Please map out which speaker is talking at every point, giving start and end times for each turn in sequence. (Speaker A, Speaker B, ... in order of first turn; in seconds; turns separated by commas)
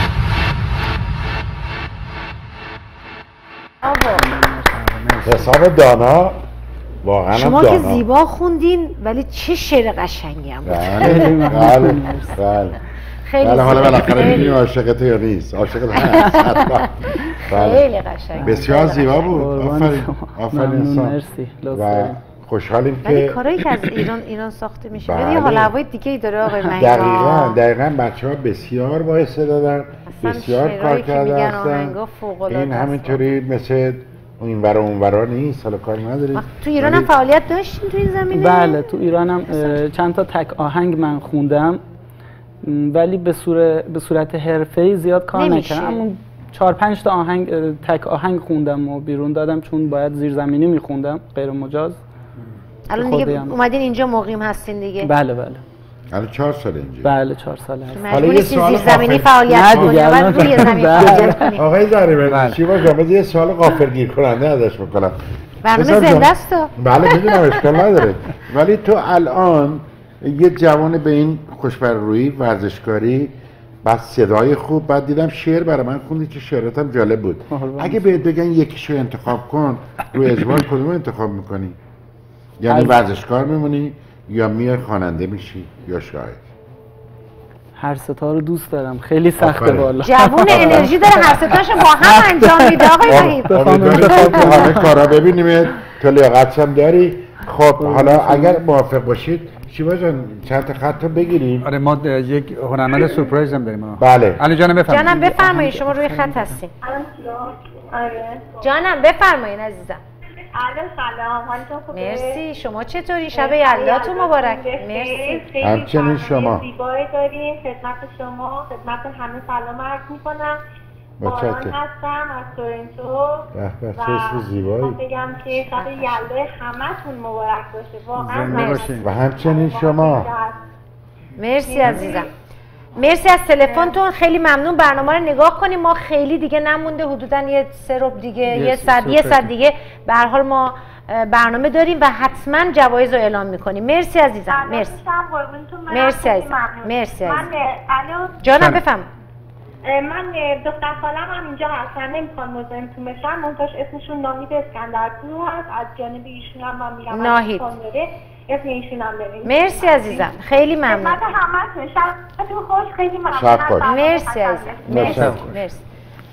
Speaker A: 3.8-4.3, Speaker B: 4.3-5.2, Speaker C: 5.2-6.4, Speaker C: 7.0-8.1, Speaker A: 7.3-11.7, Speaker C: 10.6-12.8, Speaker B: 11.0-12.4, Speaker A: 13.3-14.6, Speaker C: 13.4-17.9, Speaker B: 16.3-16.6, Speaker A: 17.4-19.3, Speaker B: 18.4-18.7, Speaker C: 18.4-21.2, Speaker B: 19.3-22.2, Speaker C: 21.7-23.4, Speaker A: 23.0-27.6, Speaker C: 25.0-25.7, Speaker C: 26.8-32.0, Speaker A: 30.1-33.2, Speaker C: 32.5-37.1, Speaker A: 36.4-39.8, Speaker B: 38.3-41.8, Speaker B: 42.6-52.0, Speaker A: 45.4-46.0, Speaker A: 52.9-55.1, Speaker B: 53.0-53.6, Speaker B: 55.0-55.6, Speaker C: 56.1-57.1, Speaker B: 57.0-58.3, Speaker A: 57.9-61.6, Speaker C: 58.1-81.8, Speaker B: 59.5-61.5, Speaker D: 62.3-62.6, Speaker A: 65.6-67.8, Speaker B: 77.5-78.0, Speaker C: 82.6-86.4, Speaker B: 82.7-83.0, Speaker B: 87.8-91.3, Speaker C: 89.4-90.9, Speaker A: 90.0-94.4, Speaker B: 92.4-92.8, Speaker C: 93.1-101.7, Speaker B: 93.5-94.9, Speaker B: 97.8-98.6, Speaker D: 101.6-105.3, Speaker C: 104.0-104.4, Speaker A: 104.9-106.7, Speaker B: 105.1-106.5, Speaker E: 106.8-108.7, Speaker A: 108.6-110.0, Speaker E: 110.6-112.4, Speaker A: 111.9-115.4, Speaker E: 113.3-120.6, Speaker C: 115.6-116.6, Speaker C: 121.2-121.8, Speaker E: 121.2-130.6, Speaker C: 123.5-125.0, Speaker D: 128.2-129.1, Speaker A: 128.5-128.8, Speaker C: 129.0-130.3, Speaker A: 131.4-132.3, Speaker E: 131.6-132.3, Speaker A: 133.0-145.0, Speaker D: 138.5-139.5, Speaker E: 144.5-148.4, Speaker A: 145.9-147.5, Speaker A: 148.4-149.1, Speaker D: 148.6-148.8, Speaker E: 149.9-165.0, Speaker A: 157.1-157.7, Speaker A: 159.4-161.2, Speaker C: 163.3-163.9, Speaker A: 163.8-165.8, Speaker C: 164.9-165.6, Speaker D: 164.9-165.5